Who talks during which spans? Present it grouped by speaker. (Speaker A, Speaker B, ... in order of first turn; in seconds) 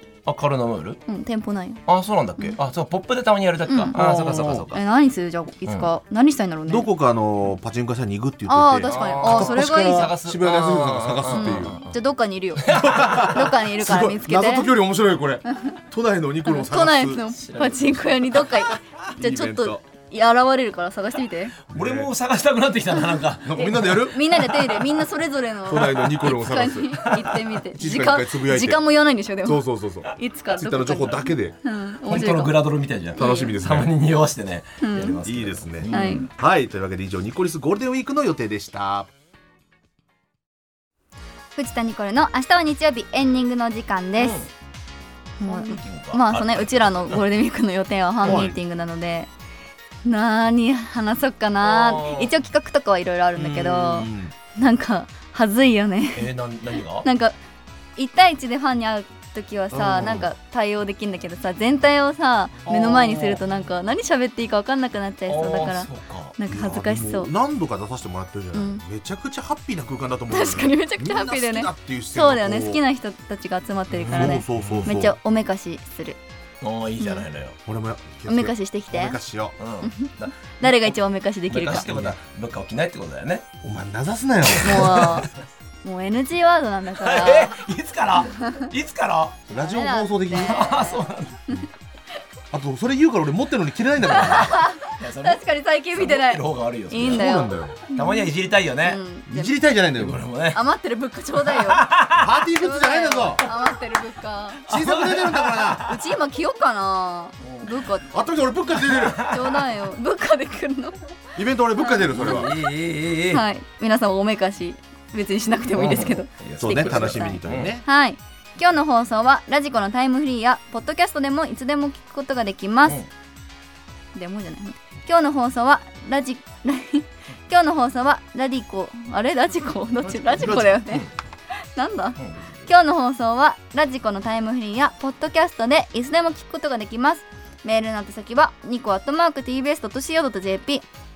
Speaker A: 0.2-1.0, 1.9-4.8, 8.8-12.0, 12.6-13.4, 17.3-18.7, 21.7-24.9, 27.0-27.4, 32.0-36.3, 44.2-44.5, 45.4-47.2, 51.6-52.3, 53.6-54.0, 56.1-57.0, 65.3-66.3, 73.9-74.9, 76.6-77.6, 79.6-81.0, 81.5-83.4, 84.5-85.3, 87.0-89.5, 90.4-91.5, 94.1-97.3, 97.9-99.0, 100.0-100.6, 101.5-102.3, 104.7-105.9, 107.4-107.7, 108.8-109.7, 112.1-113.4, 115.7-117.7, 130.1-131.1, 132.2-132.4
Speaker B: 1.1-1.8, 3.7-4.0, 4.5-6.9, 8.4-10.1, 11.3-14.7, 15.5-15.8, 16.4-21.6, 22.9-32.5, 33.1-33.6, 34.8-35.2, 35.9-36.3, 41.5-44.4, 45.4-49.3, 50.0-56.2, 57.0-57.3, 58.0-67.3, 68.5-68.8, 70.3-76.2, 77.0-77.2, 78.3-79.2, 79.8-81.9, 84.6-85.3, 85.8-87.5, 88.2-88.7, 89.6-91.7, 94.1-99.6, 100.5-101.9, 102.5-104.6, 105.8-108.1, 109.2-111.0, 111.8-112.5, 113.3-123.0, 124.1-131.1, 131.7-140.8
Speaker C: 3.9-4.7, 6.7-11.7, 12.7-17.2, 19.2-19.8, 21.7-22.1, 23.4-24.3, 25.6-27.0, 27.7-28.8, 29.4-31.6, 33.2-33.9, 35.2-39.1, 48.2-48.5, 53.4-54.3, 59.7-60.2, 62.6-63.4, 66.5-72.8, 74.1-75.2, 77.7-79.5, 81.8-82.1, 83.6-85.1, 89.5-90.5, 92.5-94.5, 97.0-97.8, 99.3-100.2, 102.2-103.5, 104.7-105.8, 108.1-109.2, 111.3-112.5, 116.6-117.8